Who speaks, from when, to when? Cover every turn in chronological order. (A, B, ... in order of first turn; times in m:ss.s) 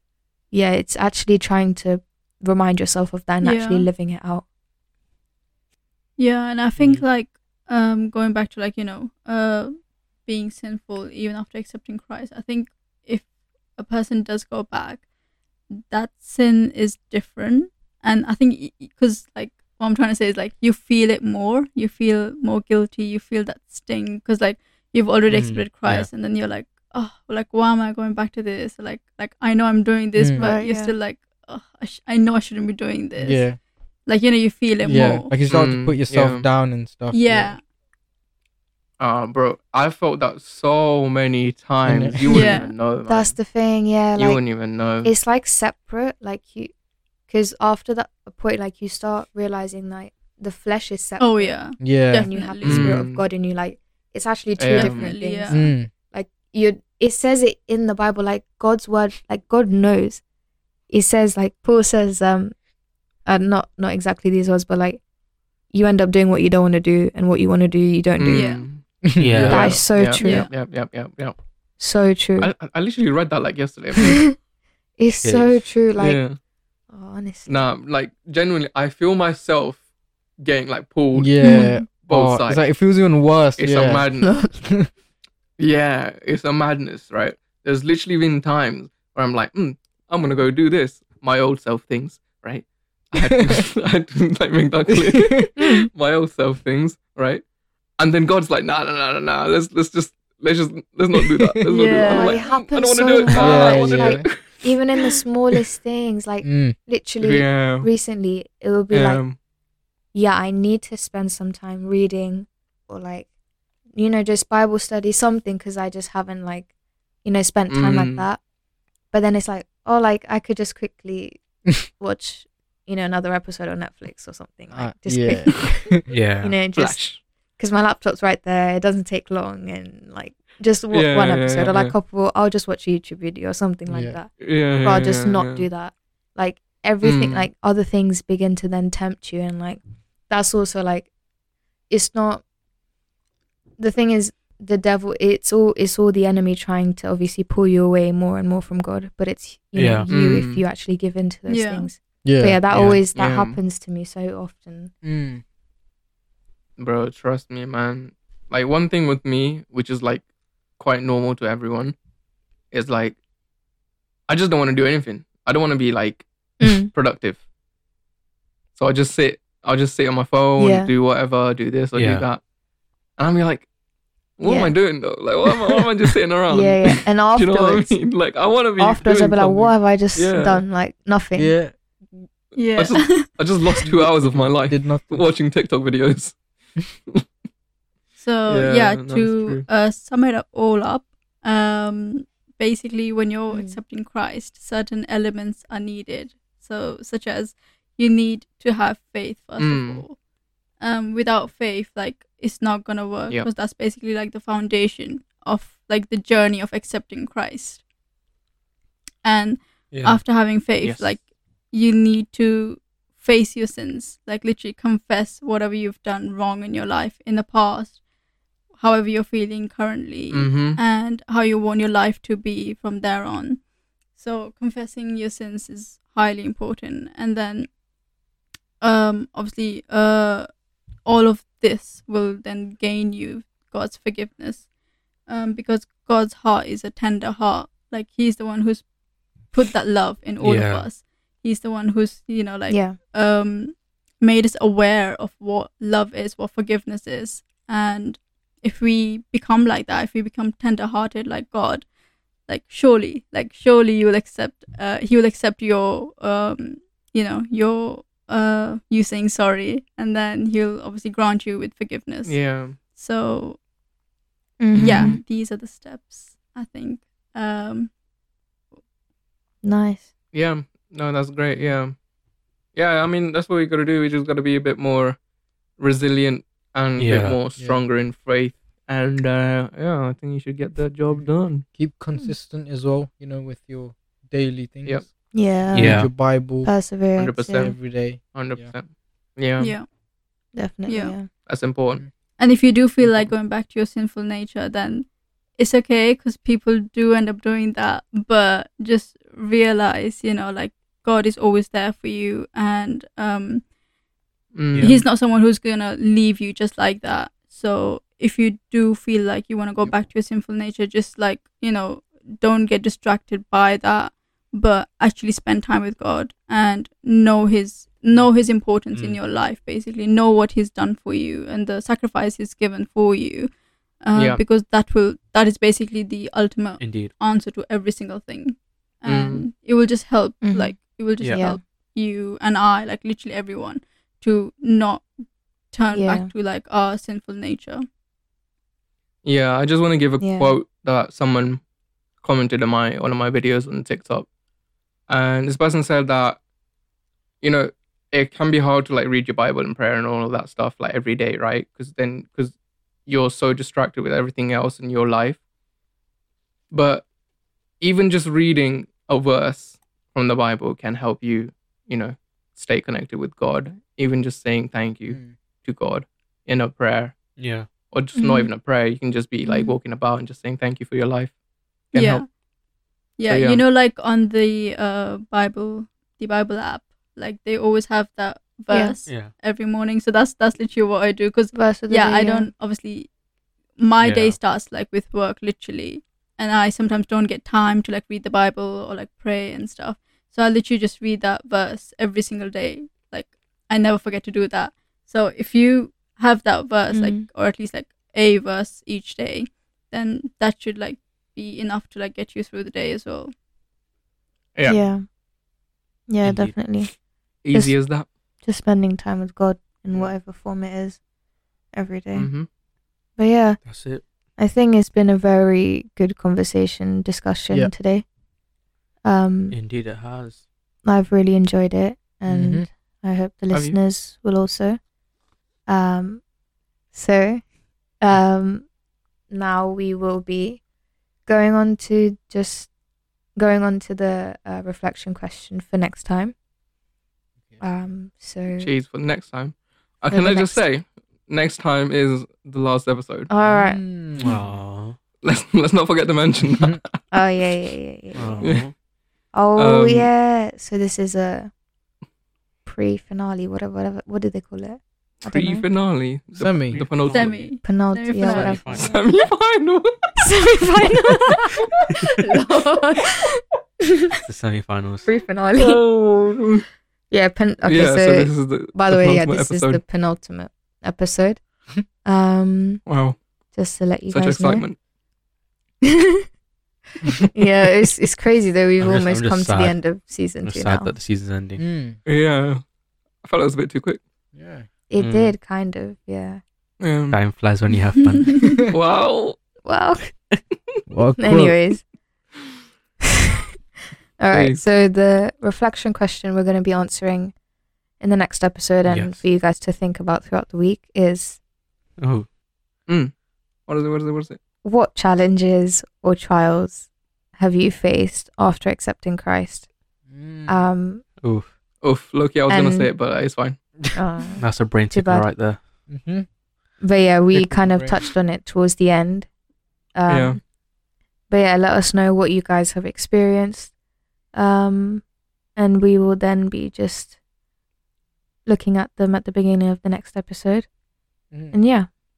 0:00.5-0:04.4 A
0:03.4-0:03.9 B
0:06.2-0:15.0 B
0:15.9-0:33.5 B
0:25.3-0:26.1 C
0:30.2-0:30.5 D
0:30.4-0:31.0 A
0:33.2-0:33.6 D
0:34.1-0:35.3 B
0:34.8-0:37.6 D
0:35.5-0:36.5 E
0:37.1-0:37.6 B
0:39.0-0:43.4 E
0:41.8-0:42.5 D
0:42.3-0:42.7 B
0:42.4-0:44.4 A
0:44.2-0:45.1 E
0:45.0-0:46.7 A
0:47.3-1:00.2 A
0:51.2-0:53.0 B
0:51.8-0:52.3 D
0:52.6-0:53.2 E
0:54.6-0:55.1 E
0:54.7-0:55.7 B
0:55.5-0:55.9 D
1:00.9-1:02.6 A
1:03.2-1:05.0 A
1:05.7-1:08.6 A
1:08.2-1:11.4 E
1:08.3-1:08.7 B
1:09.1-1:09.8 D
1:09.2-1:09.8 C
1:09.5-1:10.5 A
1:10.2-1:10.5 B
1:11.8-1:12.5 A
1:12.4-1:14.2 E
1:14.0-1:14.3 A
1:15.0-1:16.2 A
1:15.2-1:15.7 C
1:16.0-1:16.4 E
1:16.9-1:17.7 A
1:17.5-1:19.8 E
1:20.4-1:22.6 E
1:21.1-1:24.1 D
1:21.4-1:21.8 A
1:23.6-1:24.3 E
1:24.2-1:24.6 A
1:24.6-1:24.9 D
1:25.6-1:37.4 E
1:33.2-1:33.4 D
1:35.1-1:35.6 D
1:35.6-1:35.9 A
1:38.0-1:45.2 E
1:41.2-1:41.5 D
1:41.7-1:42.6 B
1:42.0-1:49.2 A
1:43.4-1:44.3 D
1:46.4-1:46.8 D
1:47.2-1:47.9 E
1:48.9-1:49.4 E
1:50.1-1:53.3 A
1:53.9-1:56.7 A
1:57.2-1:58.4 A
1:57.7-1:58.3 E
1:59.1-2:21.1 A
2:04.7-2:06.0 D
2:06.1-2:06.5 C
2:06.8-2:07.2 E
2:10.9-2:11.9 E
2:13.9-2:14.2 D
2:14.4-2:15.7 E
2:17.0-2:17.5 E
2:21.9-2:22.4 A
2:23.8-2:34.9 A
2:29.8-2:30.1 C
2:30.1-2:30.6 E
2:31.5-2:31.9 B
2:32.2-2:32.6 D
2:32.7-2:33.0 C
2:33.2-2:33.6 E
2:35.0-2:35.4 D
2:36.8-2:40.2 E
2:40.8-2:41.9 E
2:42.7-2:43.2 E
2:44.3-2:46.2 E
2:46.6-2:46.9 A
2:46.9-2:47.4 E
2:48.8-2:52.4 E
2:50.6-2:50.9 A
2:51.9-2:52.2 C
2:53.2-2:53.7 E
2:54.4-3:00.6 E
2:54.4-2:54.8 A
2:56.5-2:58.0 A
2:58.8-3:01.5 A
3:01.4-3:01.7 D
3:02.6-3:03.4 B
3:02.8-3:06.4 E
3:03.8-3:05.2 D
3:08.2-3:20.2 B
3:08.5-3:09.6 E
3:13.5-3:13.8 A
3:19.6-3:20.0 E
3:20.8-3:27.8 B
3:29.2-3:38.0 B
3:29.9-3:30.2 C
3:30.8-3:31.2 E
3:38.7-3:47.7 B
3:40.3-3:40.8 E
3:48.8-3:50.5 B
3:51.0-3:54.7 B
3:55.2-3:58.9 B
3:59.4-4:11.9 B
4:00.4-4:00.9 C
4:02.7-4:03.0 A
4:12.4-4:23.6 B
4:22.2-4:22.8 E
4:24.6-4:25.2 A
4:24.8-4:25.2 E
4:24.8-4:27.9 B
4:29.6-4:30.1 A
4:30.3-4:31.9 E
4:32.8-4:35.2 E
4:35.8-4:41.6 E
4:37.0-4:37.4 C
4:41.7-4:45.1 D
4:45.3-4:47.8 A
4:45.7-4:46.7 D
4:45.7-4:46.1 C
4:47.2-4:49.7 E
4:47.6-4:48.7 D
4:49.6-4:49.9 B
4:50.5-4:51.3 A
4:50.9-4:51.2 B
4:51.5-4:52.0 E
4:52.4-5:03.6 B
4:53.0-4:53.3 E
5:04.5-5:05.1 E
5:04.7-5:05.0 C
5:04.8-5:35.1 B
5:18.9-5:19.2 C
5:24.2-5:24.4 E
5:26.8-5:27.1 C
5:29.1-5:29.5 E
5:30.4-5:30.8 A
5:31.3-5:31.6 A
5:35.7-5:37.8 B
5:35.9-5:36.3 A
5:39.2-5:41.6 E
5:40.2-5:40.6 A
5:42.2-5:44.3 E
5:45.1-5:46.4 E
5:47.4-5:52.5 E
5:53.1-5:55.4 E
5:56.7-5:57.1 E
5:57.8-6:07.2 E
6:07.4-6:07.7 C
6:07.9-6:11.4 E
6:08.2-6:08.5 A
6:09.4-6:09.8 A
6:11.9-6:12.2 E
6:11.9-6:12.3 B
6:13.2-6:23.1 B
6:13.3-6:13.6 E
6:18.7-6:19.0 A
6:19.1-6:19.3 C
6:21.5-6:22.5 A
6:23.8-6:43.3 B
6:24.0-6:24.4 C
6:36.9-6:37.2 A
6:44.6-6:45.0 A
6:46.1-6:46.9 A
6:46.2-6:46.8 C
6:47.4-6:48.1 E
6:47.5-6:47.8 A
6:48.4-6:51.0 A
6:51.7-6:52.3 A
6:52.2-6:52.5 E
6:53.2-6:53.7 A
6:53.6-6:54.0 C
6:54.4-6:58.0 A
6:59.0-6:59.6 A
6:59.5-7:00.4 C
7:00.8-7:04.8 A
7:02.3-7:02.6 D
7:05.6-7:06.2 A
7:06.9-7:07.5 A
7:08.0-7:08.7 A
7:09.3-7:10.6 A
7:11.2-7:12.7 A
7:13.4-7:16.3 A
7:17.6-7:18.7 A
7:18.6-7:23.3 E
7:20.1-7:20.6 A
7:23.3-7:23.8 A
7:23.4-7:24.4 D
7:24.2-7:25.0 C
7:25.2-7:27.0 E
7:27.1-7:28.6 A
7:28.2-7:28.7 C
7:29.3-7:31.5 A
7:29.6-7:30.1 E
7:32.6-7:35.6 A
7:35.3-7:37.4 E
7:36.4-7:36.8 D
7:36.7-7:37.6 C
7:37.1-7:38.7 B
7:37.6-7:38.9 A
7:38.3-7:39.0 C
7:38.8-7:40.2 E
7:40.2-7:43.3 A
7:44.2-7:45.1 C
7:45.1-7:45.8 A
7:45.6-7:46.6 E
7:47.1-7:52.8 A
7:47.6-7:49.8 E
7:52.9-7:53.2 E
7:53.5-7:54.7 A
7:54.1-7:54.8 E
7:55.8-7:56.2 A
7:57.3-8:00.9 A
7:58.8-7:59.8 C
8:00.4-8:01.6 C
8:01.6-8:02.0 D
8:02.1-8:02.6 E
8:03.2-8:04.0 E
8:04.4-8:04.7 D
8:04.9-8:06.4 A
8:05.0-8:05.3 C
8:06.8-8:07.2 E
8:07.1-8:08.5 C
8:08.0-8:08.6 B
8:08.7-8:09.4 E
8:09.6-8:10.2 A
8:10.9-8:11.6 D
8:11.2-8:11.8 A
8:14.2-8:17.4 A
8:14.3-8:14.6 E
8:18.0-8:21.4 A
8:18.9-8:19.2 C
8:22.0-8:22.3 C
8:22.9-8:23.1 E
8:23.7-8:24.4 E
8:24.6-8:29.7 A
8:30.1-8:30.6 D
8:30.5-8:31.0 A
8:31.2-8:31.5 C
8:31.8-8:33.6 E
8:32.5-8:32.9 A
8:33.9-8:35.3 A
8:34.4-8:35.6 C
8:35.9-8:36.3 D
8:36.8-8:39.3 A
8:37.3-8:38.0 D
8:39.9-8:40.4 A
8:40.1-8:40.4 E
8:41.3-8:43.7 A
8:44.3-8:45.0 A
8:45.6-8:47.2 A
8:48.5-8:50.7 A
8:51.5-8:51.9 A